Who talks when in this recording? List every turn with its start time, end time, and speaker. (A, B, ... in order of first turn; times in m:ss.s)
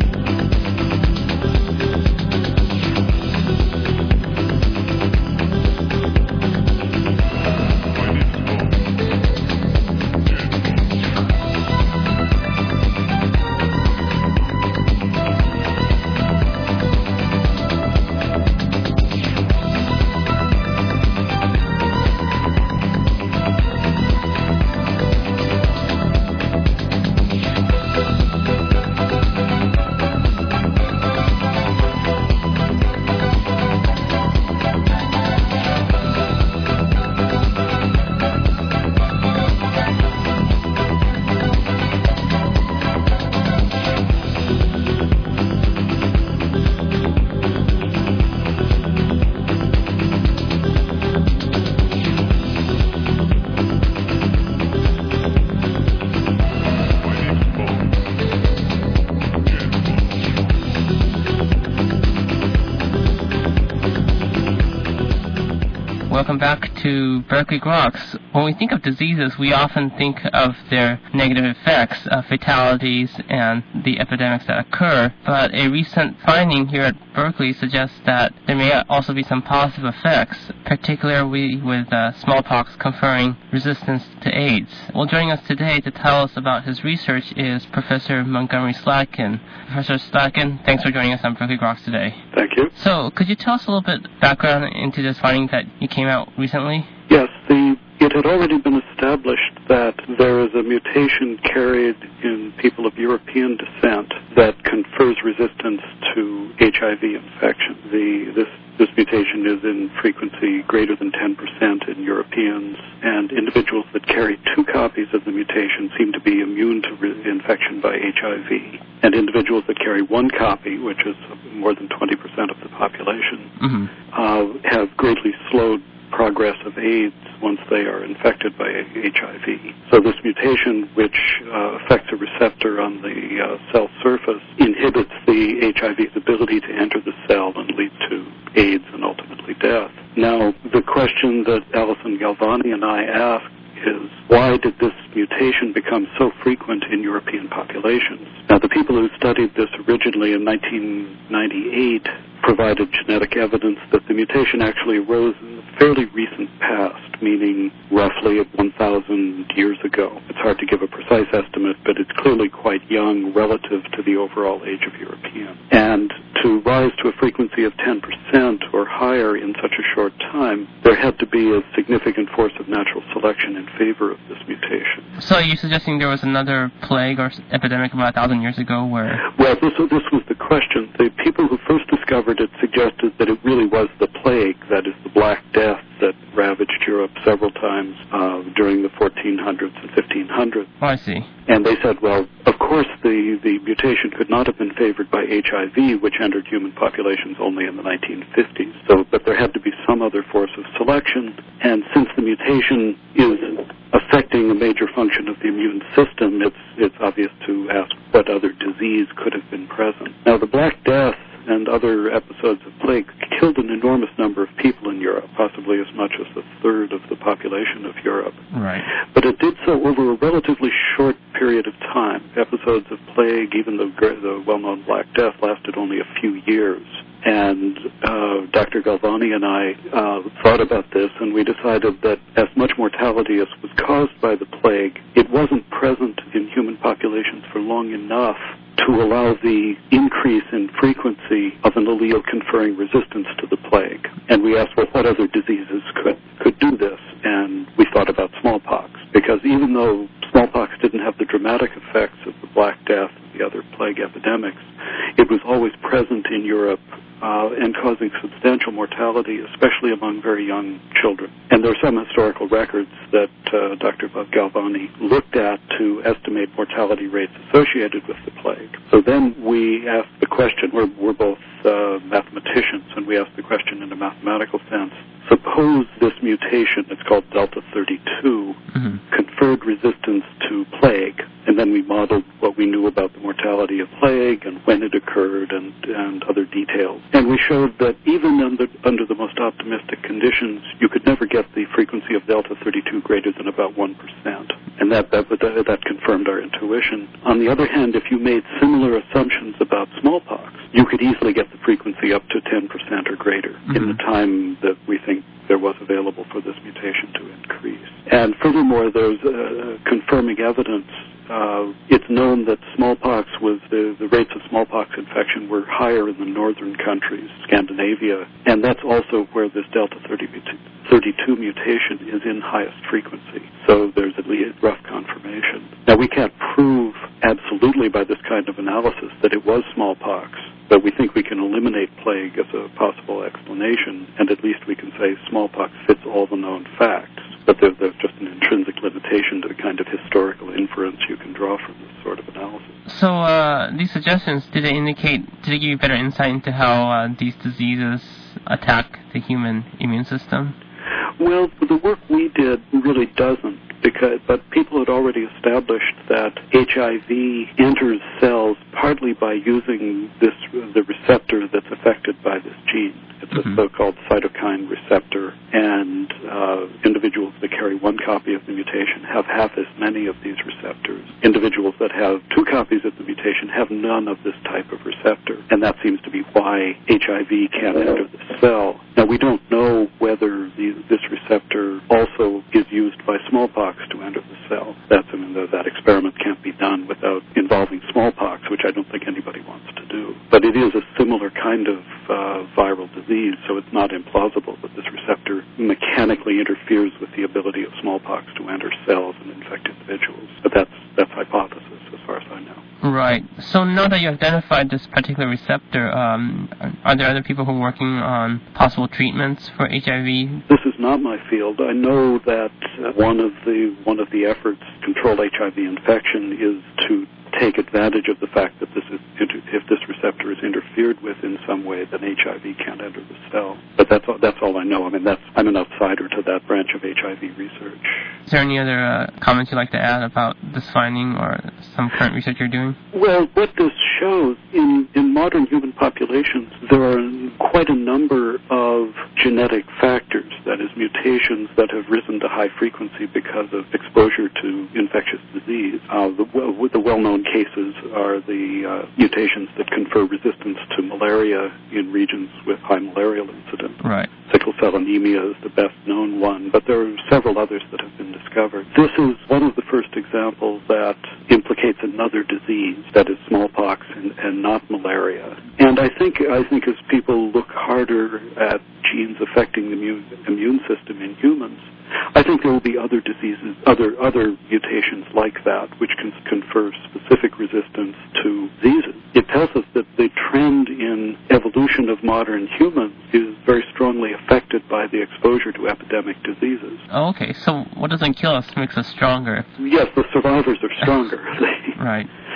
1:06.1-1:32.2 A
1:32.3-1:32.7 B
1:32.7-1:36.9 A
1:37.1-2:03.5 B
2:03.6-2:03.9 A
2:04.1-2:55.1 B
2:55.2-2:59.2 A
2:59.3-3:10.7 B
3:10.8-3:11.3 A
3:11.5-3:38.4 B
3:38.5-3:38.8 A
3:39.1-5:42.7 B
5:03.7-5:04.0 A
5:42.9-5:50.6 A
5:51.2-6:42.6 B
6:42.8-6:50.4 A
6:50.5-7:07.9 B
7:08.3-7:12.8 A
7:12.9-8:06.8 B
7:33.8-7:34.1 A
8:06.9-8:09.5 A
8:09.6-8:11.7 B
8:11.8-8:12.1 A